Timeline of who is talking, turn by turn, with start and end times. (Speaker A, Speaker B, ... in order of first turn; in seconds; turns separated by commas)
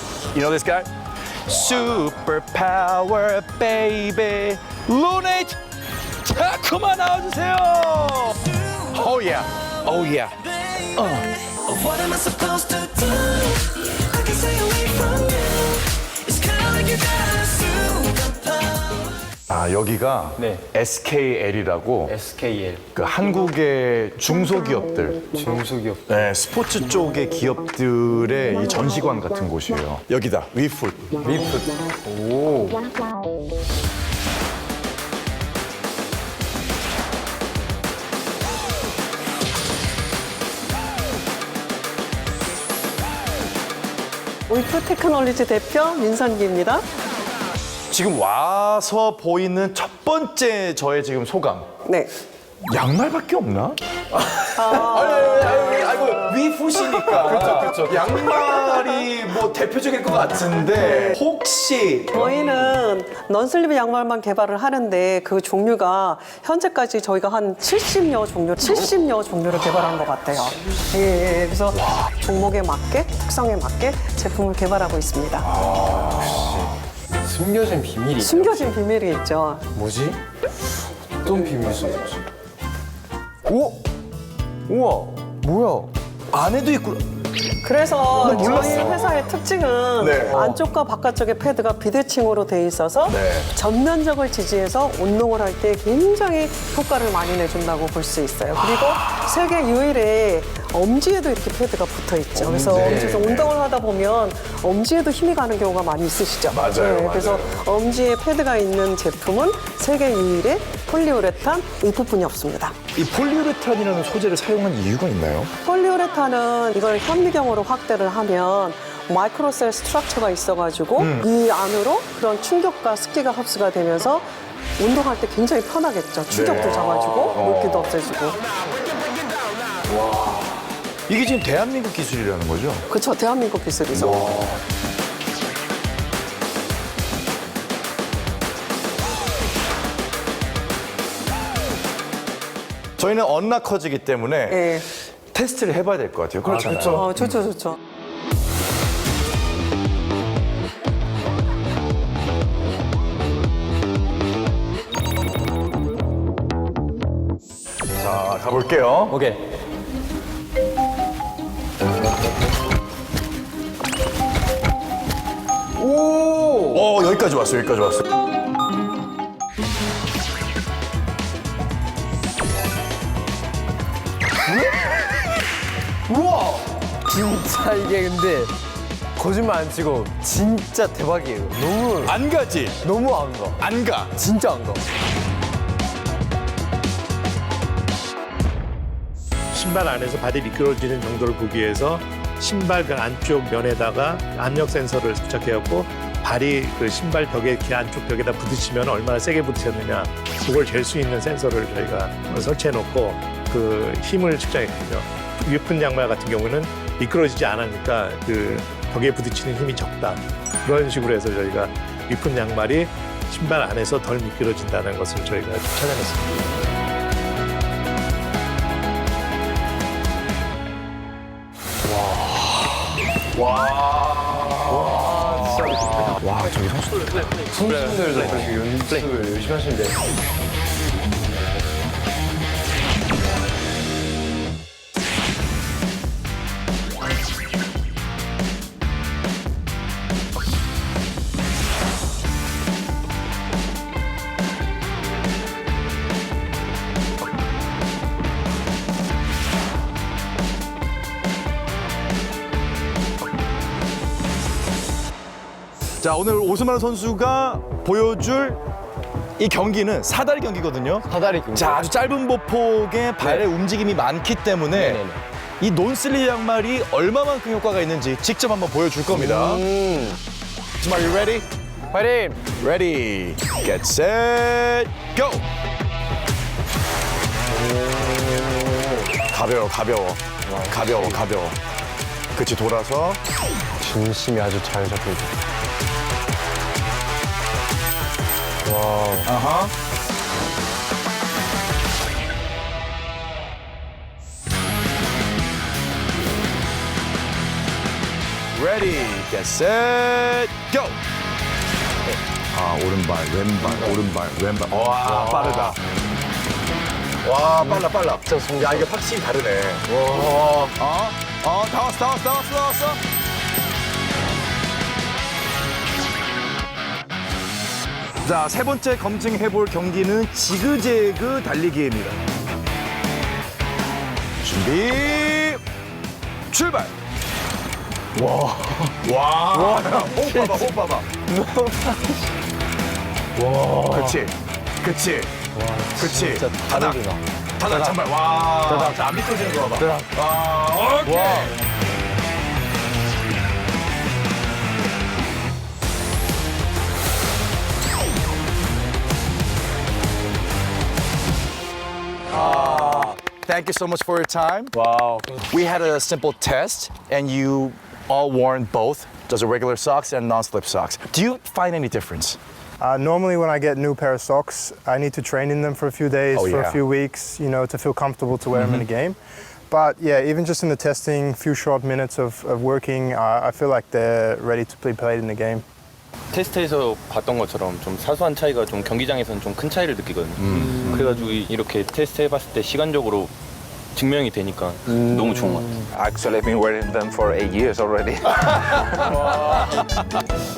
Speaker A: 0.3-0.9, Speaker A: 1.4-5.6, Speaker A: 6.2-11.4, Speaker B: 11.5-19.0, Speaker C: 12.2-12.7, Speaker A: 19.5-22.1, Speaker C: 22.1-22.8, Speaker A: 22.9-25.3, Speaker C: 25.3-26.2, Speaker A: 26.1-31.2, Speaker C: 31.2-32.9, Speaker D: 44.5-46.9, Speaker A: 47.9-51.7, Speaker D: 51.9-52.1, Speaker A: 52.6-62.3, Speaker D: 54.5-56.1, Speaker D: 60.8-61.2, Speaker D: 62.1-75.5, Speaker A: 75.6-76.6, Speaker C: 75.8-76.7, Speaker C: 77.2-78.7, Speaker D: 78.2-79.7, Speaker C: 79.7-80.2, Speaker C: 81.2-82.2, Speaker C: 83.5-83.8, Speaker C: 84.7-85.9, Speaker A: 86.3-87.2, Speaker D: 87.6-112.8, Speaker A: 88.1-89.2, Speaker A: 90.0-90.6, Speaker A: 93.1-93.5, Speaker A: 102.5-103.5, Speaker A: 106.5-107.5, Speaker A: 113.0-115.5, Speaker D: 115.6-128.4, Speaker A: 121.0-121.3, Speaker A: 126.3-127.9, Speaker A: 129.9-130.4, Speaker A: 131.1-132.8, Speaker D: 132.9-134.4, Speaker A: 133.9-134.4, Speaker A: 143.0-144.7, Speaker D: 144.5-144.9, Speaker A: 145.3-147.3, Speaker D: 146.8-147.8, Speaker A: 158.0-159.2, Speaker C: 166.0-166.8, Speaker A: 166.1-168.1, Speaker C: 176.1-178.5, Speaker C: 179.2-182.2, Speaker A: 182.0-182.8, Speaker C: 182.8-183.6, Speaker A: 183.6-184.1, Speaker C: 184.2-184.8, Speaker E: 189.5-215.9, Speaker A: 222.1-222.4, Speaker A: 223.3-227.5, Speaker C: 224.7-226.2, Speaker C: 227.5-229.9, Speaker F: 227.6-228.9, Speaker A: 256.0-258.6, Speaker A: 259.4-265.0, Speaker C: 261.1-261.9, Speaker C: 263.2-263.5, Speaker C: 264.7-265.2, Speaker A: 265.6-269.7, Speaker C: 269.1-270.2, Speaker A: 270.8-271.5, Speaker C: 271.9-272.4, Speaker A: 272.5-275.4, Speaker C: 277.5-279.1, Speaker A: 279.2-281.6, Speaker C: 280.5-281.2, Speaker A: 282.3-283.2, Speaker C: 283.8-285.3, Speaker C: 288.6-289.3, Speaker A: 289.2-289.7, Speaker A: 298.5-301.0, Speaker A: 302.5-305.8, Speaker C: 305.2-305.8, Speaker A: 307.2-313.0, Speaker C: 307.6-308.9, Speaker A: 318.2-322.2, Speaker A: 324.4-325.6, Speaker A: 326.5-326.9, Speaker C: 328.2-328.7, Speaker A: 328.8-331.2, Speaker C: 329.5-330.7, Speaker C: 331.3-332.0, Speaker C: 333.4-334.2, Speaker A: 333.8-335.4, Speaker C: 335.6-337.2, Speaker A: 335.9-337.1, Speaker A: 337.6-341.5, Speaker C: 338.6-338.9, Speaker C: 339.8-340.1, Speaker C: 341.1-341.5, Speaker A: 352.3-362.4, Speaker G: 362.8-369.2, Speaker A: 366.3-366.8, Speaker A: 368.5-368.9, Speaker G: 369.7-375.6, Speaker F: 376.3-383.3, Speaker F: 383.9-385.8, Speaker H: 385.9-388.2, Speaker A: 388.4-390.0